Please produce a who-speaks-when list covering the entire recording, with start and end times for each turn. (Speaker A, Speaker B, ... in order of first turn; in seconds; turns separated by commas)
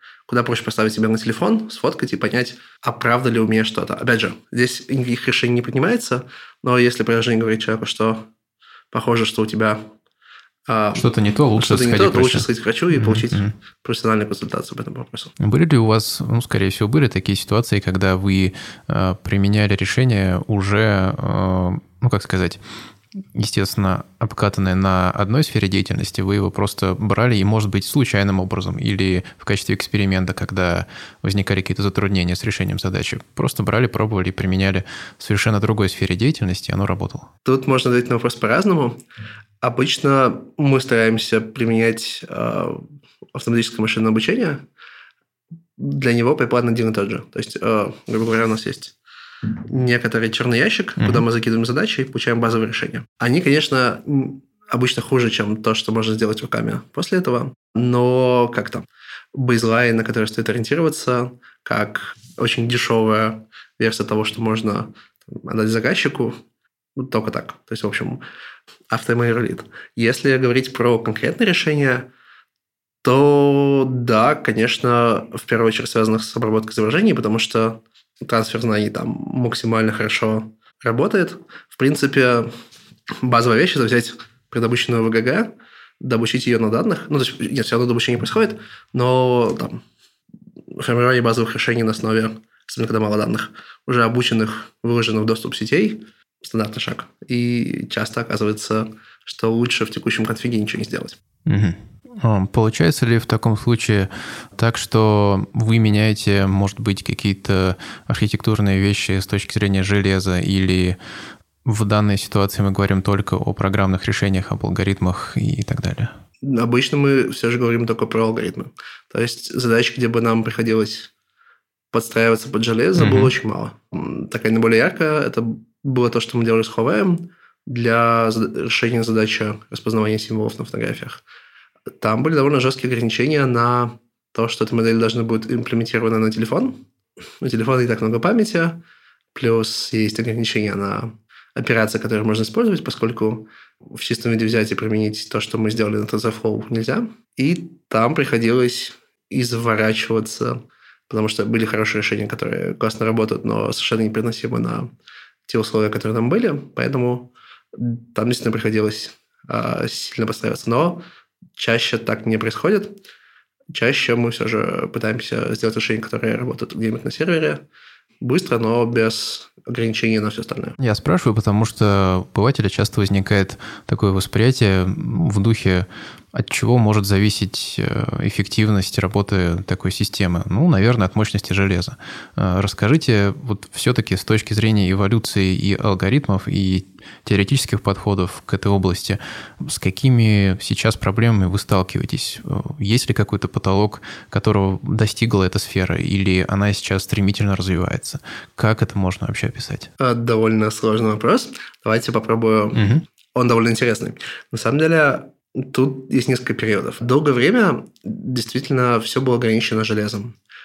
Speaker A: 0.3-8.3, Speaker A: 8.9-9.9, Speaker A: 10.7-11.1, Speaker B: 11.0-13.5, Speaker A: 11.6-15.3, Speaker B: 15.4-22.6, Speaker B: 23.2-37.3, Speaker A: 37.5-39.0, Speaker A: 39.6-44.6, Speaker A: 45.8-49.0, Speaker A: 49.7-66.4, Speaker B: 51.0-51.2, Speaker A: 67.0-68.2, Speaker A: 68.9-72.1, Speaker A: 73.0-82.5, Speaker A: 83.2-89.8, Speaker A: 90.8-101.2, Speaker B: 101.5-111.0, Speaker B: 111.7-116.1, Speaker A: 116.4-121.1, Speaker A: 121.9-131.2, Speaker B: 123.0-123.3, Speaker A: 132.0-136.8, Speaker A: 137.4-138.8, Speaker A: 139.3-150.6, Speaker A: 151.1-154.9, Speaker A: 155.5-161.0, Speaker A: 161.6-162.9, Speaker A: 163.7-167.6, Speaker A: 168.2-170.8, Speaker B: 170.8-199.9, Speaker A: 200.0-210.4, Speaker B: 202.8-203.0